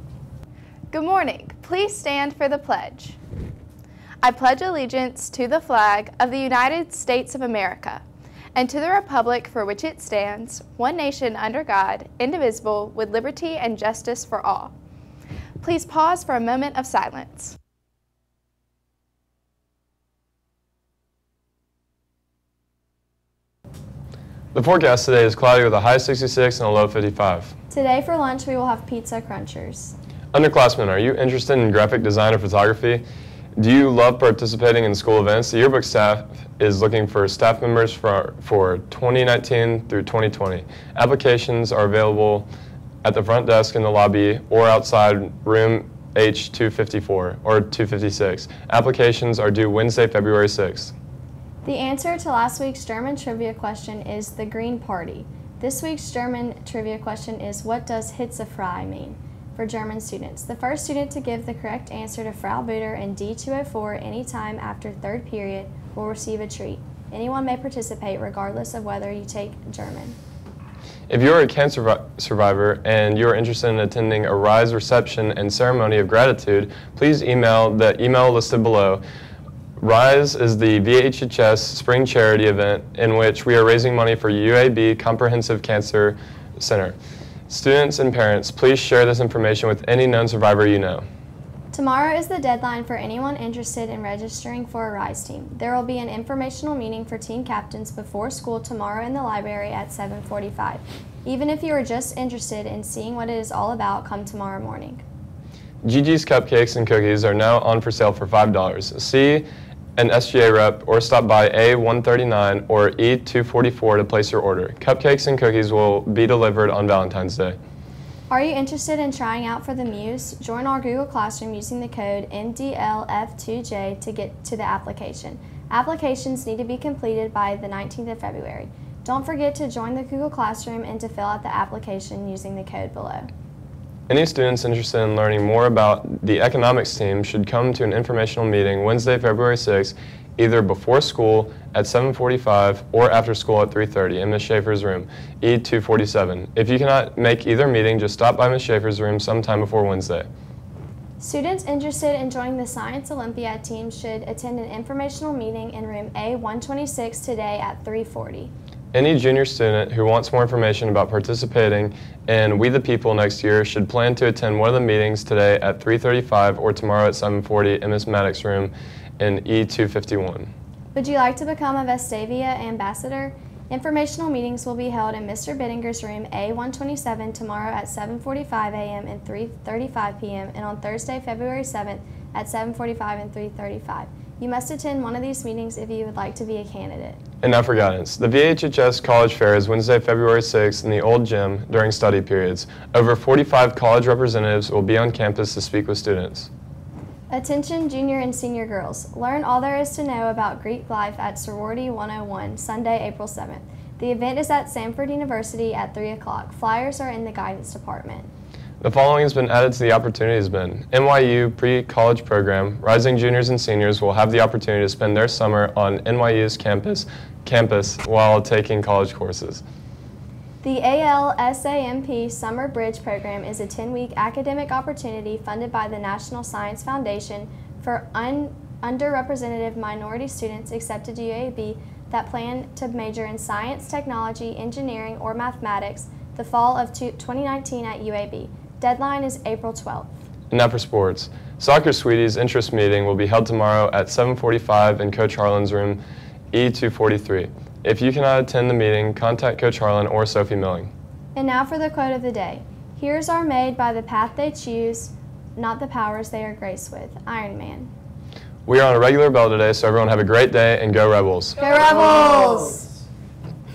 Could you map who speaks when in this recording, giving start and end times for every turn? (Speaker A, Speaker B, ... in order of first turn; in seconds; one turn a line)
Speaker A: 0.9-3.2
Speaker A: 4.2-8.0
Speaker A: 8.5-14.7
Speaker A: 15.6-17.6
Speaker B: 24.5-27.5
Speaker C: 27.7-29.9
Speaker B: 30.3-33.0
Speaker B: 33.6-42.5
Speaker B: 43.0-50.9
Speaker C: 51.6-70.2
Speaker B: 71.1-79.0
Speaker B: 79.8-87.0
Speaker B: 87.5-91.0
Speaker C: 91.7-105.0
Speaker B: 105.8-109.5
Speaker B: 110.0-117.6
Speaker C: 118.3-133.3
Speaker B: 134.1-150.3
Speaker C: 151.2-158.5
Speaker B: 158.9-170.5
Speaker C: 170.9-187.2
Speaker B: 187.4-196.5
Speaker C: 197.3-208.3
Speaker B: 208.8-219.6
Speaker C: 220.6-240.1
Speaker B: 240.5-246.0
Speaker B: 246.5-250.9
Speaker C: 251.3-257.9
Speaker B: 258.6-261.6
Speaker C: 261.6-262.9